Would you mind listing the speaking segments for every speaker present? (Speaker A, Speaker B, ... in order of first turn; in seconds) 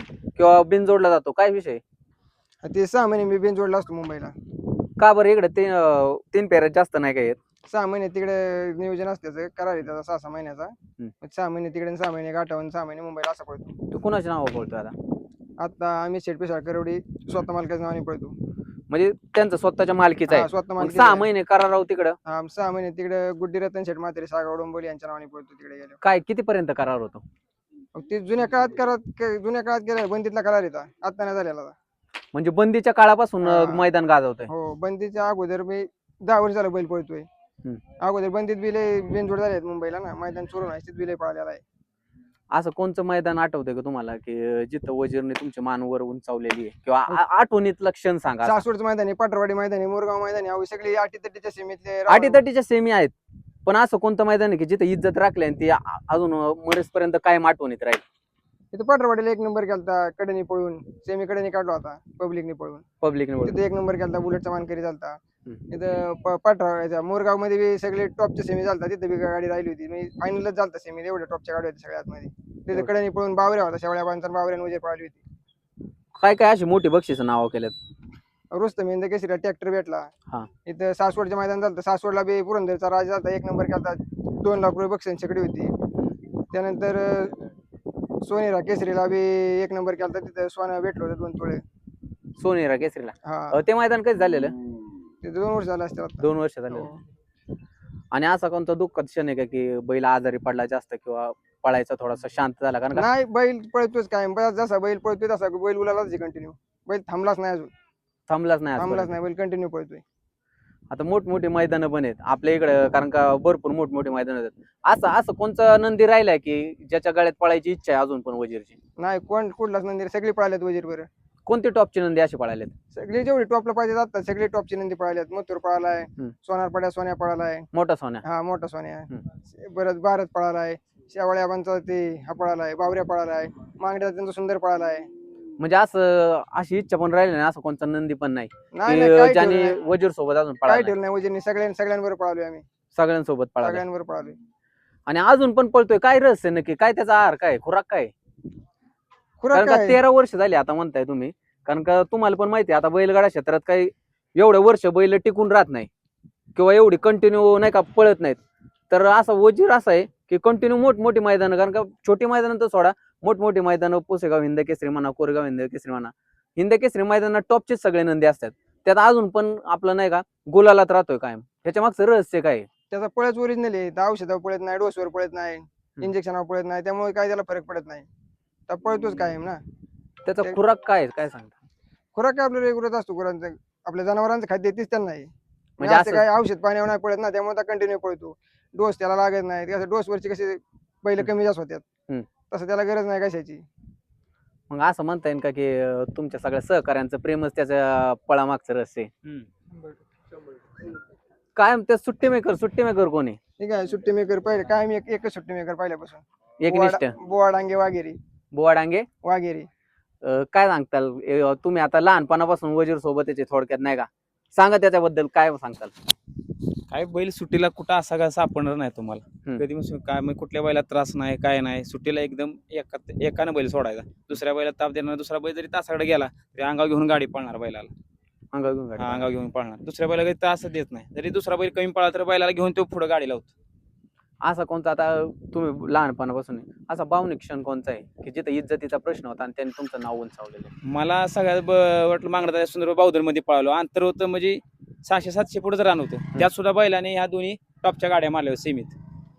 Speaker A: 0.3-1.8, 5.0-7.4, 13.9-14.9, 18.9-22.2, 26.0-27.2, 32.3-34.5, 42.5-48.6, 52.1-53.1, 53.6-58.0, 63.0-63.6, 76.2-77.7, 92.4-94.5, 96.2-96.9, 98.1-103.1, 108.3-109.1, 110.9-118.8, 121.5-122.7, 127.7-128.2, 135.6-140.9, 142.9-143.8, 145.1-148.1, 149.5-155.9, 156.6-158.4, 158.9-172.7, 180.2-181.5, 185.8-186.2, 194.7-199.1, 201.6-203.4, 206.6-207.1, 208.5-209.1, 210.2-215.9, 228.5-229.3, 234.4-240.7
Speaker B: 2.6-4.3, 7.7-13.8, 15.6-18.3, 20.3-21.3, 22.2-26.0, 27.9-31.7, 33.4-33.9, 34.5-37.3, 38.0-41.6, 48.4-52.4, 58.7-62.8, 63.4-65.2, 65.7-75.2, 78.5-80.1, 80.7-85.8, 86.5-87.3, 88.2-91.6, 93.2-93.5, 95.2-97.0, 102.9-107.7, 108.8-110.0, 119.0-121.1, 122.9-127.7, 128.2-135.1, 138.7-139.8, 140.6-142.6, 143.6-144.4, 149.4-150.0, 172.9-178.1, 178.7-179.6, 182.1-191.8, 192.5-193.6, 203.6-208.2, 209.2-209.7
Speaker C: 216.9-227.9, 229.0-233.5, 240.8-248.9